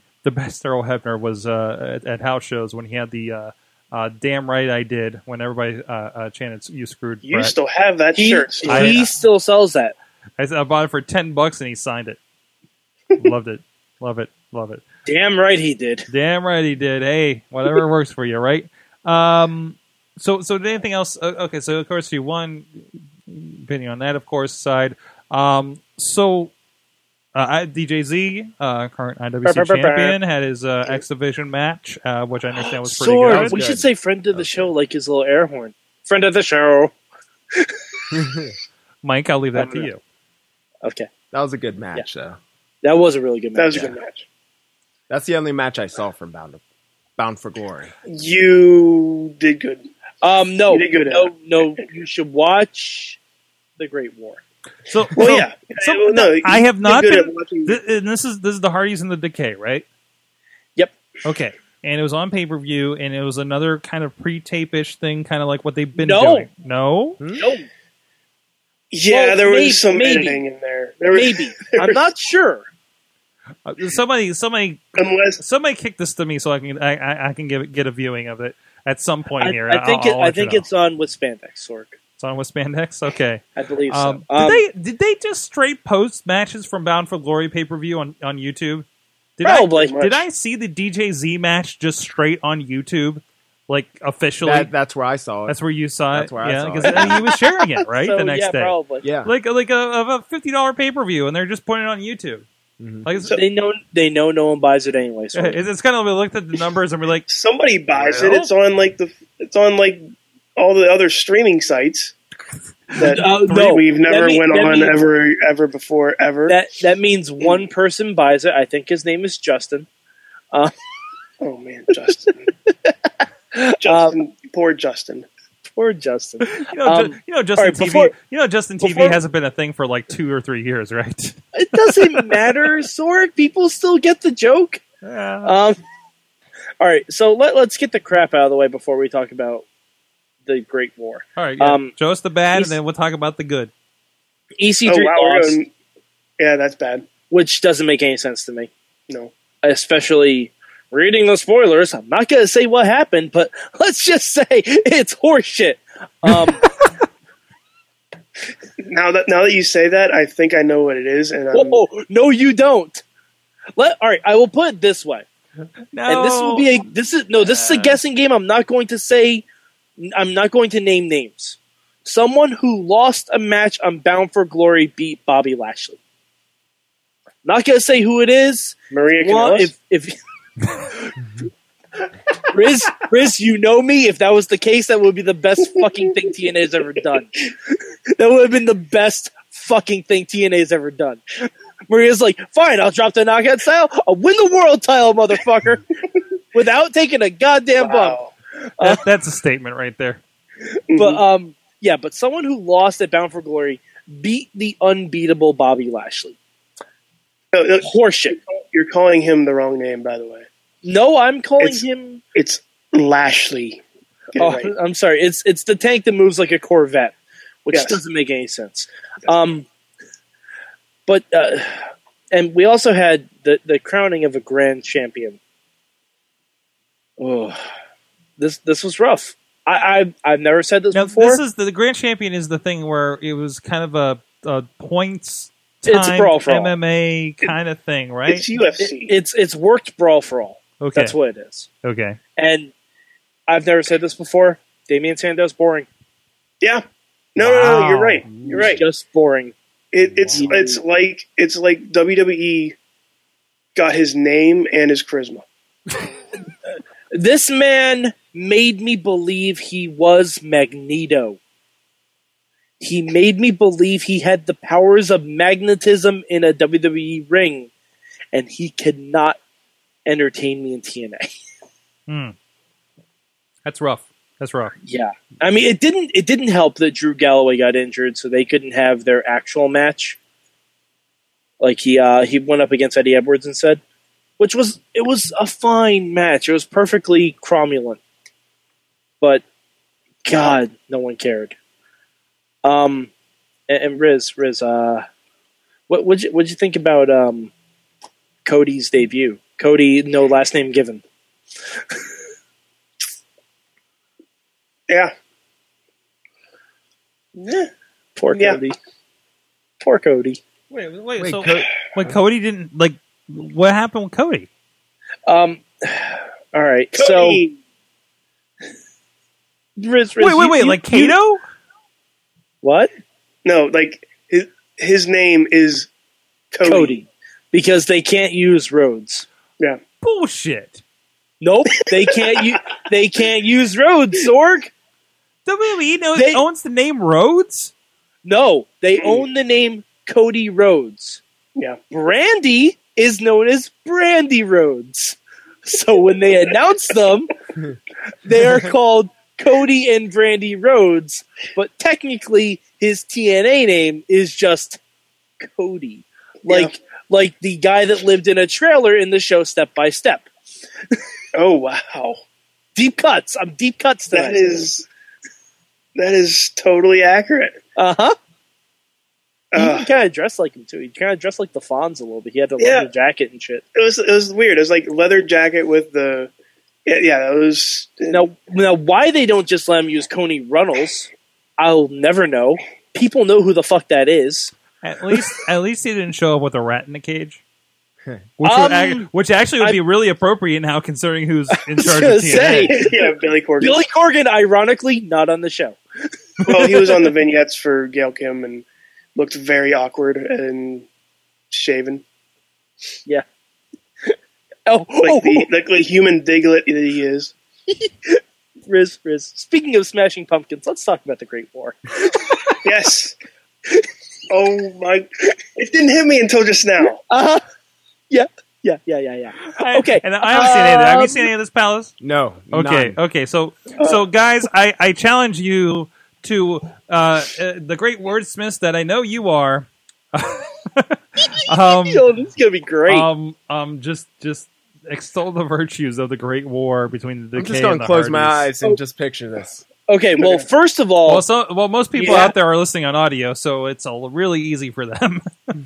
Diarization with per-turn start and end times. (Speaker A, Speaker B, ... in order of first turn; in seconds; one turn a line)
Speaker A: 0.2-7.5
Speaker B: 7.2-9.0
Speaker C: 8.1-9.9
Speaker A: 8.7-9.1
Speaker A: 10.4-12.2
Speaker A: 13.2-14.9
Speaker C: 15.1-16.1
Speaker A: 16.1-26.5
Speaker A: 27.3-33.6
Speaker C: 29.4-30.2
Speaker C: 32.6-36.9
Speaker D: 33.3-34.7
Speaker D: 38.1-38.5
Speaker A: 39.0-40.0
Speaker C: 40.8-41.1
Speaker D: 41.3-42.4
Speaker C: 42.8-44.0
Speaker B: 43.5-44.2
Speaker D: 45.1-46.6
Speaker D: 47.2-47.9
Speaker B: 48.0-49.9
Speaker C: 50.2-53.2
Speaker B: 50.7-51.3
Speaker C: 53.8-54.4
Speaker A: 54.9-59.8
Speaker B: 55.1-57.8
Speaker A: 61.2-67.2
Speaker C: 66.0-66.5
Speaker C: 67.4-67.7
Speaker B: 68.9-72.0
Speaker C: 69.1-70.4
Speaker C: 71.1-72.7
Speaker A: 73.6-80.7
Speaker B: 75.0-75.4
Speaker C: 79.4-82.0
Speaker A: 82.2-88.9
Speaker C: 83.6-84.6
Speaker A: 89.4-94.7
Speaker C: 89.4-90.0
Speaker B: 89.7-90.2
Speaker D: 94.4-95.6
Speaker A: 95.5-102.4
Speaker D: 96.1-97.2
Speaker C: 97.9-99.0
Speaker D: 99.0-99.3
Speaker D: 102.8-103.0
Speaker A: 103.0-103.4
Speaker C: 103.3-105.6
Speaker A: 105.3-107.3
Speaker B: 107.3-110.0
Speaker A: 107.9-108.5
Speaker B: 110.5-112.1
Speaker A: 112.9-113.2
Speaker B: 113.0-116.6
Speaker C: 113.0-115.0
Speaker C: 116.5-119.9
Speaker B: 121.4-122.5
Speaker C: 123.5-124.2
Speaker B: 123.8-125.3
Speaker C: 125.7-128.1
Speaker A: 126.4-132.3
Speaker C: 128.8-129.2
Speaker C: 131.6-134.8
Speaker A: 135.0-135.5
Speaker C: 135.4-135.8
Speaker C: 136.8-139.6
Speaker C: 140.4-141.9
Speaker A: 141.4-143.7
Speaker C: 144.6-145.6
Speaker B: 144.9-145.7
Speaker B: 146.4-147.1
Speaker C: 147.3-148.7
Speaker C: 149.6-156.7
Speaker A: 156.3-156.6
Speaker B: 158.8-161.8
Speaker C: 161.5-163.0
Speaker C: 163.8-165.3
Speaker A: 165.9-166.8
Speaker C: 166.1-169.4
Speaker A: 167.5-168.0
Speaker C: 170.0-176.0
Speaker C: 177.4-180.1
Speaker B: 178.9-179.7
Speaker C: 182.5-187.4
Speaker C: 188.1-195.8
Speaker C: 196.5-198.2
Speaker B: 197.8-198.3
Speaker C: 198.8-199.0
Speaker A: 198.8-200.2
Speaker B: 200.9-201.2
Speaker C: 200.9-206.4
Speaker B: 207.5-210.4
Speaker C: 207.8-208.4
Speaker C: 210.8-212.2
Speaker B: 212.3-213.8
Speaker B: 214.3-214.7
Speaker C: 214.4-219.7
Speaker B: 217.7-218.0
Speaker C: 221.1-221.8
Speaker C: 222.3-225.4
Speaker C: 227.2-227.6
Speaker C: 228.4-231.4
Speaker A: 230.9-238.4
Speaker C: 235.9-236.7
Speaker B: 238.3-239.1
Speaker C: 238.8-241.7
Speaker A: 240.8-241.2
Speaker A: 241.8-242.2
Speaker C: 242.4-242.7
Speaker C: 243.5-245.9
Speaker B: 247.3-248.8
Speaker A: 247.4-248.8
Speaker C: 248.4-249.5
Speaker B: 249.9-252.7
Speaker A: 250.1-250.5
Speaker C: 250.3-250.8
Speaker B: 253.7-255.4
Speaker C: 257.1-261.4
Speaker C: 262.8-267.7
Speaker C: 268.3-269.4
Speaker C: 270.1-271.3
Speaker A: 272.1-272.3
Speaker A: 273.6-274.7
Speaker C: 274.9-280.2
Speaker C: 281.6-283.8
Speaker C: 284.4-288.0
Speaker C: 290.2-291.6
Speaker C: 292.6-293.1
Speaker C: 293.7-295.1
Speaker C: 295.9-297.5
Speaker C: 298.4-301.0
Speaker B: 307.4-307.7
Speaker C: 308.2-308.8
Speaker B: 308.3-308.6
Speaker C: 309.8-310.4
Speaker A: 310.7-314.5
Speaker D: 311.2-311.7
Speaker C: 315.3-317.4
Speaker B: 317.0-317.6
Speaker C: 319.8-321.1
Speaker A: 320.2-321.4
Speaker C: 322.6-322.9
Speaker B: 323.4-325.9
Speaker B: 326.5-327.0
Speaker C: 326.6-329.3
Speaker A: 330.0-330.8
Speaker C: 331.4-334.7
Speaker A: 335.4-337.7
Speaker C: 336.1-336.4
Speaker C: 338.2-341.2
Speaker B: 339.0-339.2
Speaker C: 341.9-347.3
Speaker C: 348.2-354.8
Speaker C: 355.4-360.3
Speaker B: 356.4-356.7
Speaker B: 361.3-362.2
Speaker C: 362.8-364.7
Speaker B: 364.1-364.9
Speaker B: 365.9-367.6
Speaker C: 367.8-368.1
Speaker B: 369.5-369.9
Speaker C: 369.6-373.6
Speaker B: 372.6-372.9
Speaker B: 373.7-376.3
Speaker B: 376.9-378.2
Speaker C: 378.1-384.5
Speaker A: 384.8-387.4
Speaker A: 388.4-392.7
Speaker C: 388.4-389.1
Speaker C: 391.8-395.8
Speaker B: 392.7-393.8
Speaker B: 396.5-400.9
Speaker C: 396.5-396.9
Speaker B: 401.5-402.0
Speaker C: 404.7-405.5
Speaker B: 405.0-407.3
Speaker C: 407.7-412.6
Speaker B: 412.6-413.1
Speaker B: 414.3-417.0
Speaker C: 416.8-417.4
Speaker C: 418.1-421.3
Speaker A: 419.4-421.9
Speaker D: 422.0-423.0
Speaker A: 422.5-432.1
Speaker C: 431.7-433.1
Speaker A: 432.9-438.5
Speaker D: 437.4-439.6
Speaker C: 439.9-441.2
Speaker B: 440.2-440.4
Speaker A: 441.1-445.6
Speaker C: 441.9-442.3